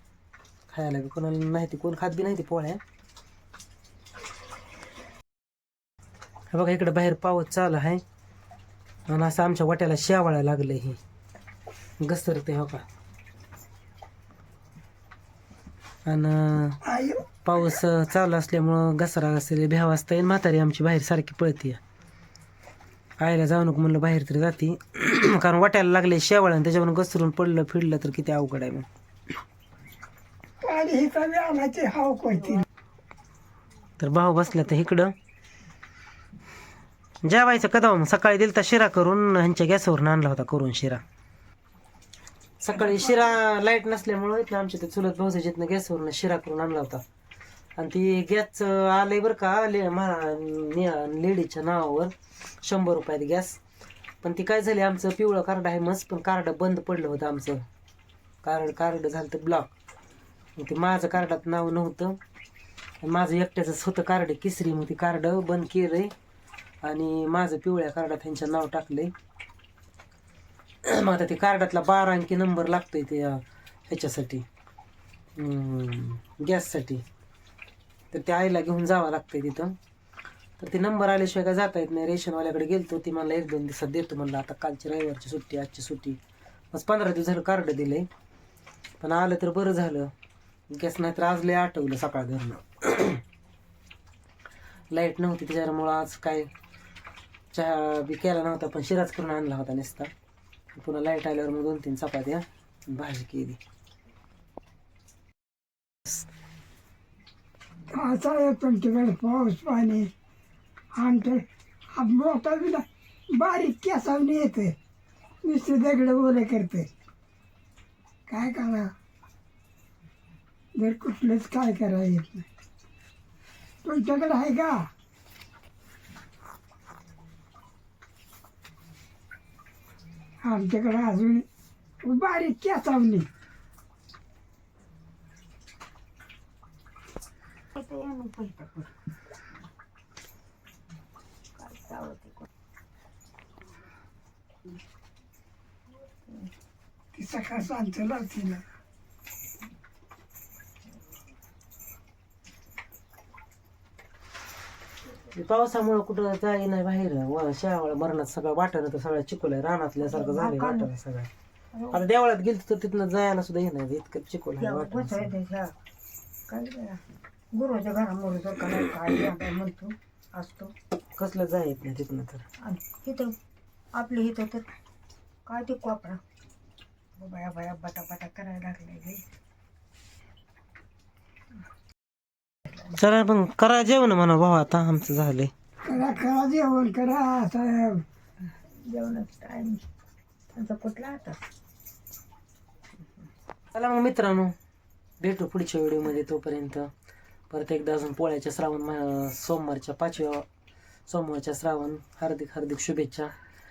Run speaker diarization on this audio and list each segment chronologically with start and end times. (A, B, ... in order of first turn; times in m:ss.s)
0:00.7-0:02.8 A
0:06.5-0:08.0 A
0:09.1-0:11.0 A
0:12.0-0:12.8 A
0:16.0-0:16.8 A
0:16.8-0:17.3 B
0:17.4-0:21.8 A
0:23.2-0:28.9 A
0:30.6-0:32.6 B
0:34.0-0:35.1 A
0:37.2-0:41.0 A
0:42.6-0:47.0 A
0:47.8-0:53.6 A
0:54.2-0:57.7 A
0:58.4-0:59.7 A
1:00.6-1:02.2 A
1:03.0-1:06.1 A
1:06.8-1:09.1 A
1:10.8-1:14.5 A
1:15.4-1:17.0 A
1:18.1-1:19.8 A
1:20.6-1:26.2 A
1:26.7-1:28.1 A
1:29.0-1:30.1 A
1:30.7-1:33.2 A
1:34.9-1:36.5 A
1:37.5-1:40.1 A
1:40.7-1:43.6 A
1:47.9-1:50.1 B
1:51.0-1:54.8 B
1:55.4-1:56.9 B
1:58.3-1:58.9 B
2:00.8-2:02.5 B
2:03.8-2:04.9 B
2:10.4-2:11.5 B
2:12.0-2:13.3 B
2:17.7-2:18.9 C
2:21.6-2:22.5 C
2:27.1-2:28.6 B
2:35.3-2:41.3 A
2:40.0-2:40.9 C
2:41.8-2:42.0 C
2:41.9-2:45.4 A
2:44.6-2:45.7 C
2:46.5-2:47.0 C
2:47.5-2:50.7 C
2:51.2-2:52.4 A
2:52.6-2:53.4 C
2:53.9-2:54.7 C
2:55.5-2:56.2 C
2:57.2-2:59.2 C
3:02.9-3:05.5 A
3:05.8-3:08.0 B
3:08.9-3:09.8 C
3:10.5-3:11.4 C
3:13.7-3:14.6 A
3:15.2-3:16.9 A
3:17.5-3:20.5 A
3:21.1-3:23.3 A